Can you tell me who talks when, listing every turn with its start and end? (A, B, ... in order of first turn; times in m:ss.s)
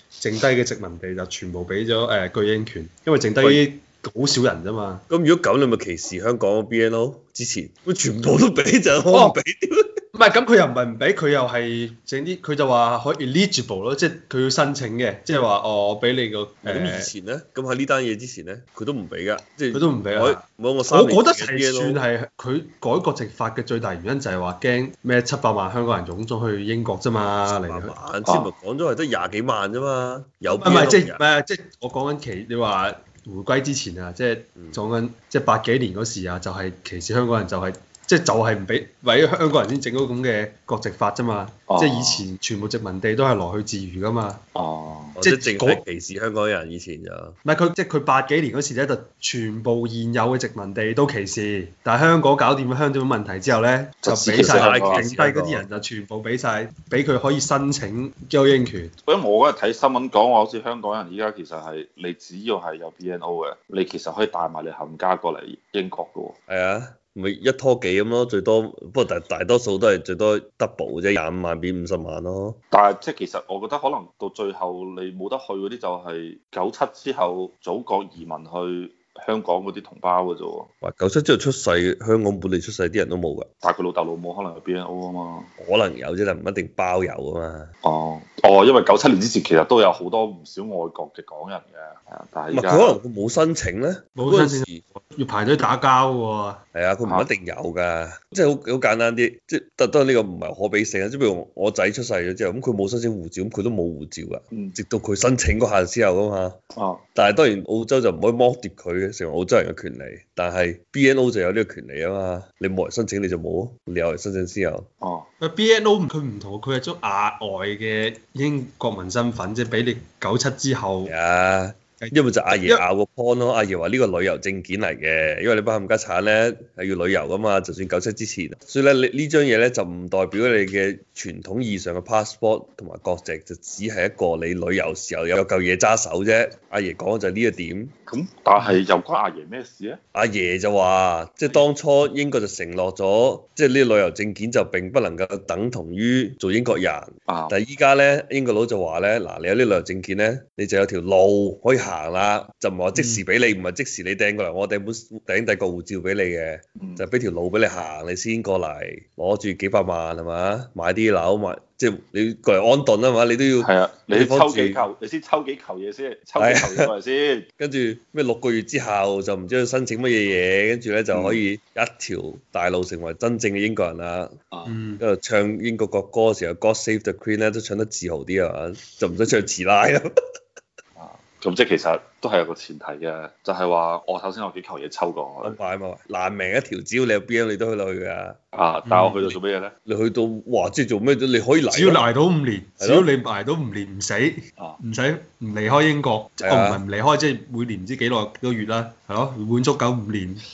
0:00.2-0:05.0 A
0:05.1-0:10.0 B
0:09.1-0:09.4 A
0:10.1-0:17.1 A
0:16.6-0:22.0 B
0:19.7-0:28.0 A
0:27.5-0:31.2 B
0:28.2-0:28.5 C
0:30.5-0:44.4 A
0:34.6-0:34.8 B
0:41.7-0:42.3 C
0:44.6-0:45.2 C
0:45.2-0:47.4 B
0:45.2-0:45.8 A
0:47.4-0:58.9 A
0:54.0-0:55.1 C
0:54.4-0:55.6 B
0:59.1-1:06.4 C
1:06.5-1:12.6 B
1:12.7-1:20.7 C
1:20.8-1:23.5 B
1:23.6-1:25.5 C
1:25.6-1:27.7 B
1:27.8-1:33.0 C
1:32.5-1:34.8 B
1:34.2-1:36.6 A
1:36.7-1:46.6 B
1:46.8-1:47.0 C
1:47.2-1:54.9 B
1:55.0-1:55.3 C
1:55.4-2:01.1 A
2:01.1-2:17.9 B
2:02.0-2:02.8 A
2:18.1-2:20.0 C
2:20.1-2:44.8 B
2:27.3-2:27.6 C
2:32.9-2:33.2 A
2:36.8-2:37.0 C
2:43.6-2:47.5 C
2:46.4-2:46.9 B
2:47.6-2:54.3 B
2:51.1-2:51.4 C
2:54.7-2:55.0 A
2:55.0-3:00.1 B
3:01.0-3:05.6 C
3:05.4-3:08.4 B
3:08.5-3:09.7 C
3:09.0-3:09.4 B
3:09.9-3:12.0 B
3:11.7-3:20.4 A
3:12.8-3:13.1 B
3:16.4-3:16.8 B